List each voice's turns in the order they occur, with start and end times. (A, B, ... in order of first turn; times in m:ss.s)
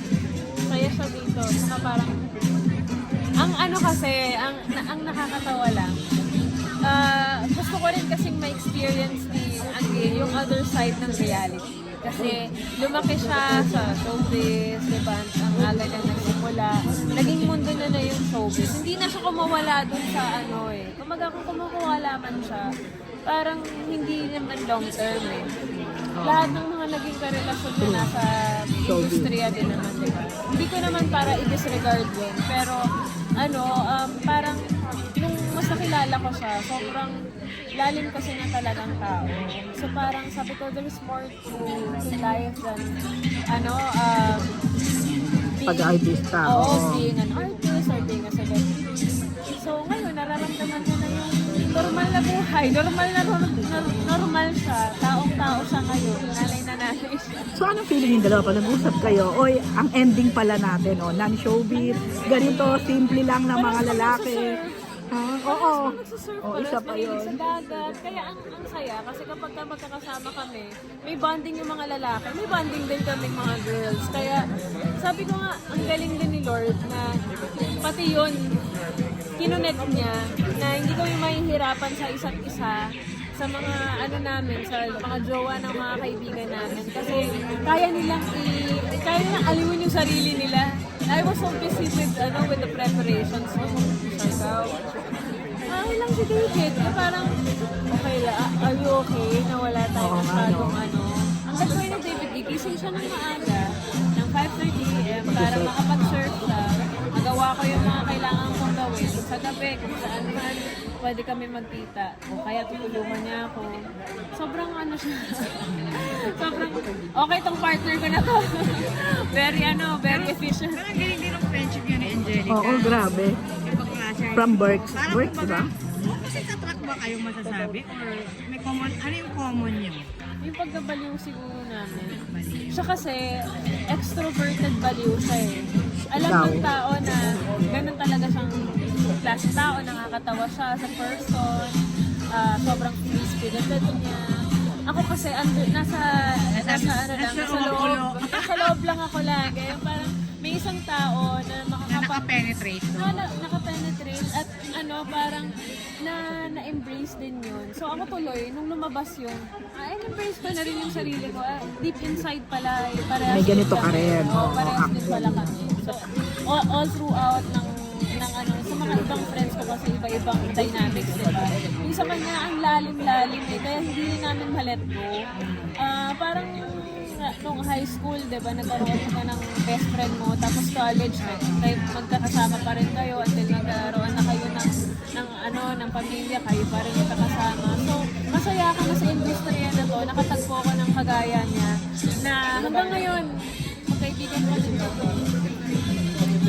0:00.7-0:02.2 A
0:03.4-0:05.9 A
0:06.9-0:22.6 A
0:23.3-0:25.4 A
0:26.2-0:26.6 B
0:26.2-0:28.2 A
0:27.8-0:28.1 B
0:28.8-0:29.3 B
0:28.9-0:32.8 A
0:33.4-0:34.6 A
0:35.2-0:37.1 A
0:37.8-0:42.8 A
0:43.5-0:44.4 A
0:45.0-0:47.1 B
0:45.6-0:45.9 A
0:46.5-0:48.7 A
0:49.6-0:57.4 A
0:57.6-1:04.4 B
1:01.7-1:03.0 A
1:03.5-1:04.7 A
1:05.1-1:07.4 B
1:05.4-1:14.4 A
1:15.0-1:17.0 A
1:17.8-1:18.3 A
1:19.4-1:22.8 A
1:23.4-1:34.7 A
1:35.7-1:37.2 A
1:37.9-1:43.6 A
1:40.0-1:40.8 B
1:44.2-1:46.6 A
1:45.3-1:45.7 B
1:47.2-1:53.7 A
1:54.4-2:00.8 A
2:00.0-2:10.1 C
2:02.5-2:03.4 B
2:04.3-2:05.7 B
2:10.4-2:12.2 A
2:12.4-2:12.6 C
2:12.7-2:13.2 A
2:13.9-2:15.6 A
2:16.1-2:16.7 B
2:16.1-2:18.5 A
2:19.2-2:21.8 A
2:22.3-2:24.2 A
2:24.9-2:26.0 A
2:26.5-2:28.7 C
2:26.6-2:32.2 A
2:31.9-2:33.1 C
2:33.0-2:35.5 A
2:36.0-2:46.0 A
2:43.3-2:45.7 B
2:46.5-2:55.1 A
2:55.8-3:11.7 A
3:01.2-3:01.7 C
3:12.2-3:13.3 A
3:13.9-3:15.1 A